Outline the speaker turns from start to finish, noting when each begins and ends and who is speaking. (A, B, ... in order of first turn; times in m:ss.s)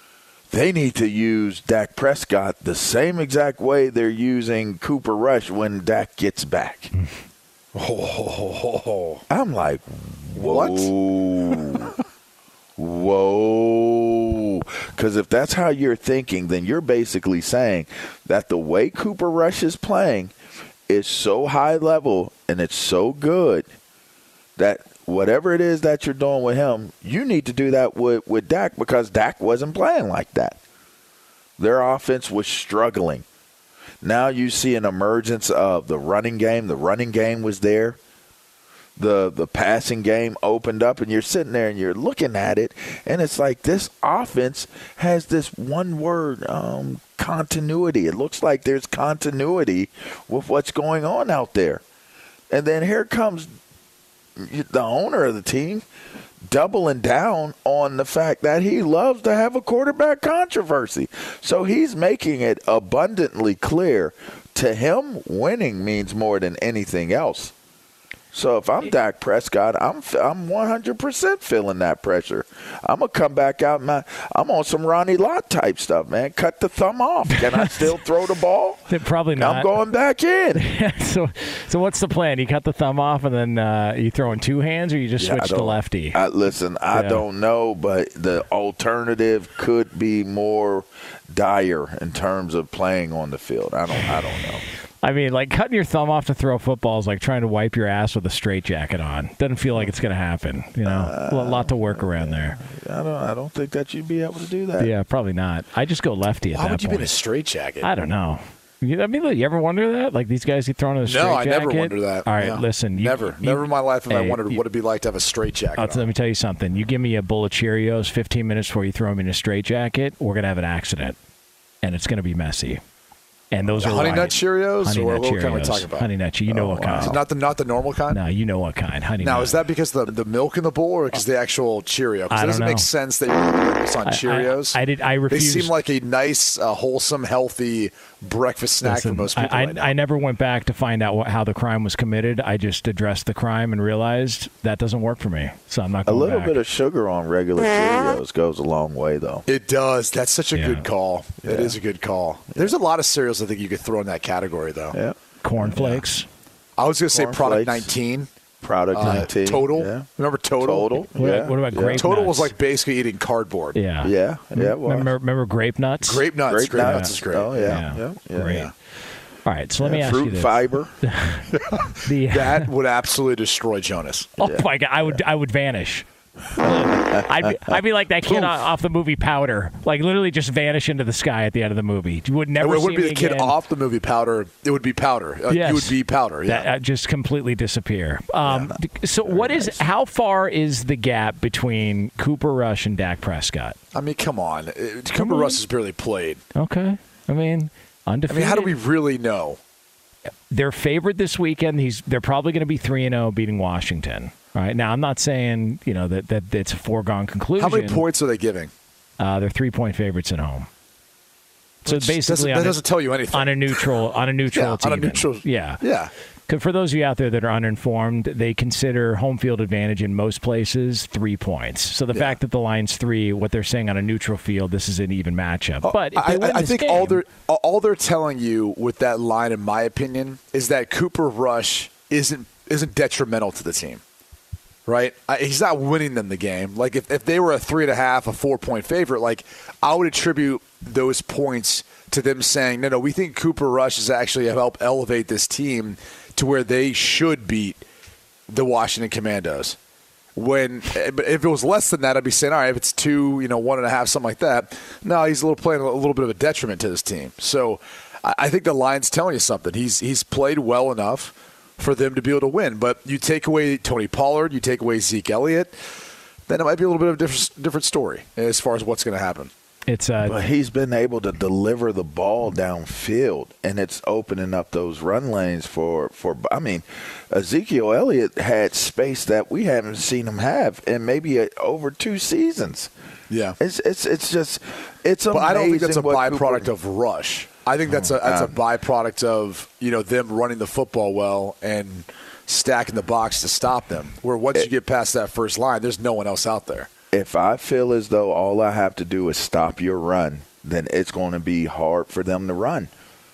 0:00.5-0:06.9 A
0:07.8-0:09.2 B
0:09.3-0:12.0 A
0:10.4-0:10.9 B
0:12.8-0:20.3 A
0:20.9-0:23.7 A
0:24.6-0:30.6 A
0:31.6-0:33.2 A
0:34.0-0:38.0 A
0:39.0-0:51.8 A
0:52.5-0:53.5 A
0:54.4-0:55.8 A
0:56.4-1:07.5 A
1:08.3-1:20.6 A
1:17.3-1:17.8 C
1:18.9-1:19.7 C
1:20.6-1:26.2 C
1:25.2-1:34.6 A
1:26.9-1:27.2 C
1:35.0-1:42.6 C
1:40.8-1:44.9 A
1:44.8-1:47.2 C
1:46.5-1:47.9 B
1:47.8-1:54.6 C
1:51.0-1:56.0 B
1:55.8-2:01.2 C
2:01.8-2:02.8 C
2:03.5-2:07.2 C
2:03.7-2:06.1 B
2:06.5-2:07.2 A
2:07.0-2:08.2 B
2:08.1-2:09.6 C
2:09.2-2:20.0 B
2:12.3-2:12.9 C
2:14.0-2:15.7 C
2:18.8-2:26.6 C
2:26.0-2:29.4 A
2:29.5-2:35.0 B
2:30.6-2:30.8 C
2:31.4-2:31.8 A
2:34.9-2:36.0 A
2:35.4-2:36.3 C
2:36.8-2:38.3 B
2:37.1-2:37.9 A
2:38.6-2:40.1 A
2:38.9-2:41.1 B
2:39.0-2:39.3 C
2:40.6-2:42.1 A
2:41.1-2:42.5 C
2:41.8-2:43.8 B
2:43.7-2:48.6 C
2:44.0-2:45.1 A
2:46.0-2:47.8 B
2:46.5-2:48.7 A
2:48.4-2:48.7 B
2:49.4-2:51.5 C
2:49.8-2:50.9 A
2:51.7-2:54.3 B
2:52.0-2:52.7 C
2:54.4-2:56.0 C
2:54.4-2:55.2 A
2:56.6-2:58.6 A
2:56.6-3:03.6 C
3:02.6-3:06.7 B
3:05.5-3:13.8 C
3:08.4-3:09.8 A
3:13.9-3:16.4 B
3:15.1-3:15.6 C
3:16.6-3:18.7 C
3:18.3-3:19.6 B
3:20.5-3:28.0 C
3:27.6-3:28.7 B
3:29.2-3:30.7 C
3:31.8-3:32.8 C
3:31.9-3:33.9 B
3:33.3-3:35.8 C
3:34.5-3:36.1 B
3:36.5-3:47.2 C
3:45.8-3:54.0 B
3:54.9-4:07.8 B
4:08.5-4:09.8 B
4:10.4-4:25.8 B
4:26.5-4:29.5 B
4:29.9-4:30.4 C
4:30.2-4:42.9 A
4:43.3-4:43.6 B
4:43.6-4:46.7 A
4:45.3-4:56.9 B
4:48.0-4:48.6 A
4:57.1-5:02.9 A